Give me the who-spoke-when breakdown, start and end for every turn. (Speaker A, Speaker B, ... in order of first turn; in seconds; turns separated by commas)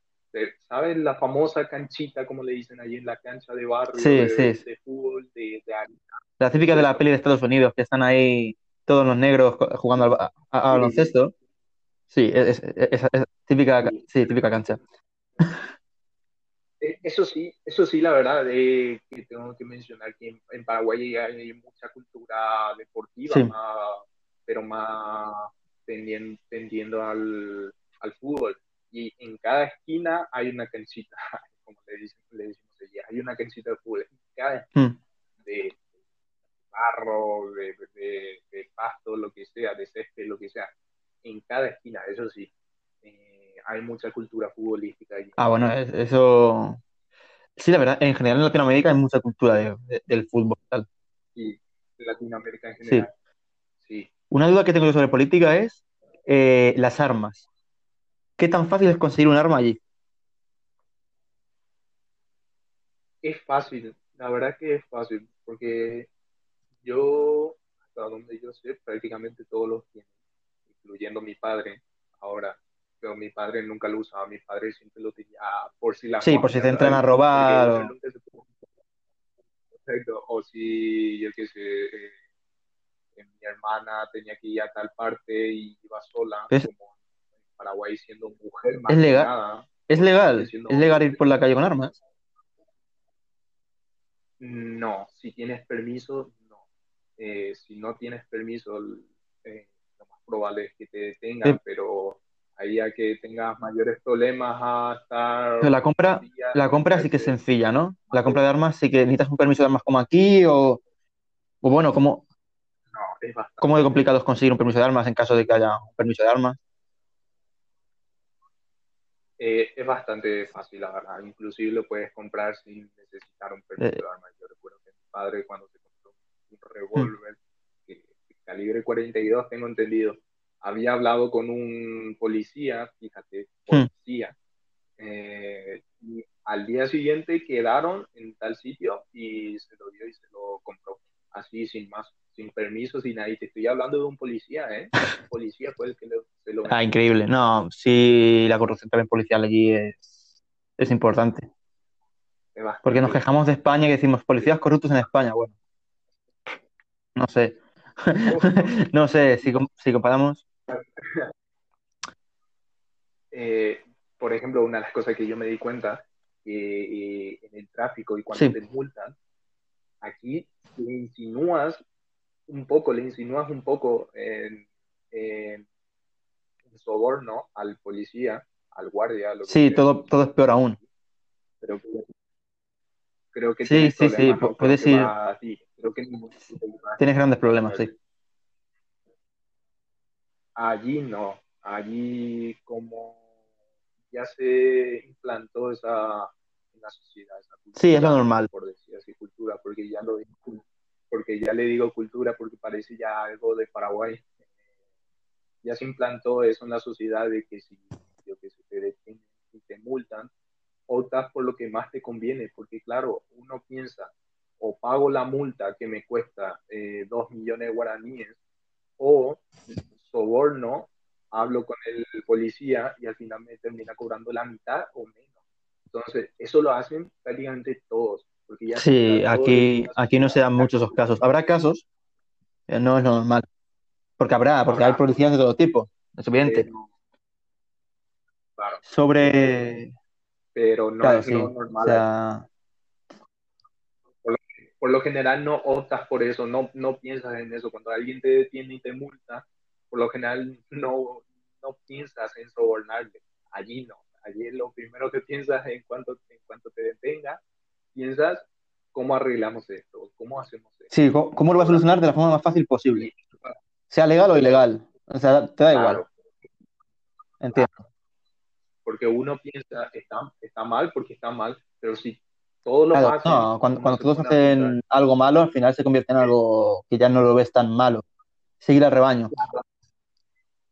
Speaker A: 0.3-7.0, Speaker B: 3.9-4.6, Speaker B: 6.4-11.3, Speaker A: 10.7-11.1, Speaker B: 12.1-14.8, Speaker A: 16.8-34.7, Speaker A: 35.4-35.8, Speaker A: 36.7-40.7, Speaker A: 41.2-42.5, Speaker A: 43.0-45.5, Speaker B: 45.4-46.8, Speaker B: 47.6-50.9, Speaker A: 51.4-53.1, Speaker B: 52.8-53.1, Speaker B: 54.3-57.4, Speaker B: 58.4-59.8, Speaker A: 63.2-66.1, Speaker A: 66.8-70.1, Speaker A: 70.7-78.5, Speaker B: 76.2-77.9, Speaker A: 79.8-82.2, Speaker A: 83.2-86.9, Speaker A: 87.5-91.2, Speaker B: 88.9-89.3, Speaker B: 89.9-92.0, Speaker A: 94.4-96.4, Speaker A: 97.2-107.4, Speaker B: 105.6-110.8, Speaker A: 108.1-108.4, Speaker B: 111.6-112.2, Speaker A: 112.9-114.0, Speaker B: 113.6-116.6, Speaker A: 119.4-134.3, Speaker A: 135.0-146.8, Speaker B: 146.7-150.0, Speaker B: 150.8-151.5, Speaker A: 152.6-153.2, Speaker B: 152.8-155.5, Speaker B: 157.2-160.4, Speaker A: 158.2-158.7, Speaker A: 160.7-161.3, Speaker A: 163.3-169.2, Speaker A: 170.0-171.8, Speaker A: 172.5-175.6, Speaker A: 176.7-180.1, Speaker B: 179.5-180.8, Speaker A: 181.6-182.1, Speaker A: 183.3-187.0, Speaker B: 183.6-185.1, Speaker B: 187.0-187.9, Speaker A: 187.6-187.9, Speaker A: 190.6-193.2, Speaker A: 194.1-204.2, Speaker B: 197.8-198.5, Speaker A: 205.6-210.3, Speaker A: 210.9-218.4, Speaker A: 219.0-219.4, Speaker A: 219.9-225.2, Speaker A: 225.9-231.0, Speaker B: 228.7-231.8, Speaker B: 232.7-233.4, Speaker B: 234.2-236.7, Speaker A: 234.7-235.1, Speaker A: 236.4-236.9, Speaker A: 238.6-239.5, Speaker B: 238.8-239.9, Speaker A: 240.5-242.0, Speaker B: 241.0-242.4, Speaker A: 244.2-257.4, Speaker A: 257.9-261.9, Speaker B: 260.9-263.1, Speaker A: 262.9-263.6, Speaker B: 263.9-266.0, Speaker A: 265.7-266.1, Speaker B: 267.4-267.8, Speaker A: 268.8-274.8, Speaker B: 272.9-278.0, Speaker B: 278.6-279.3, Speaker A: 279.3-279.6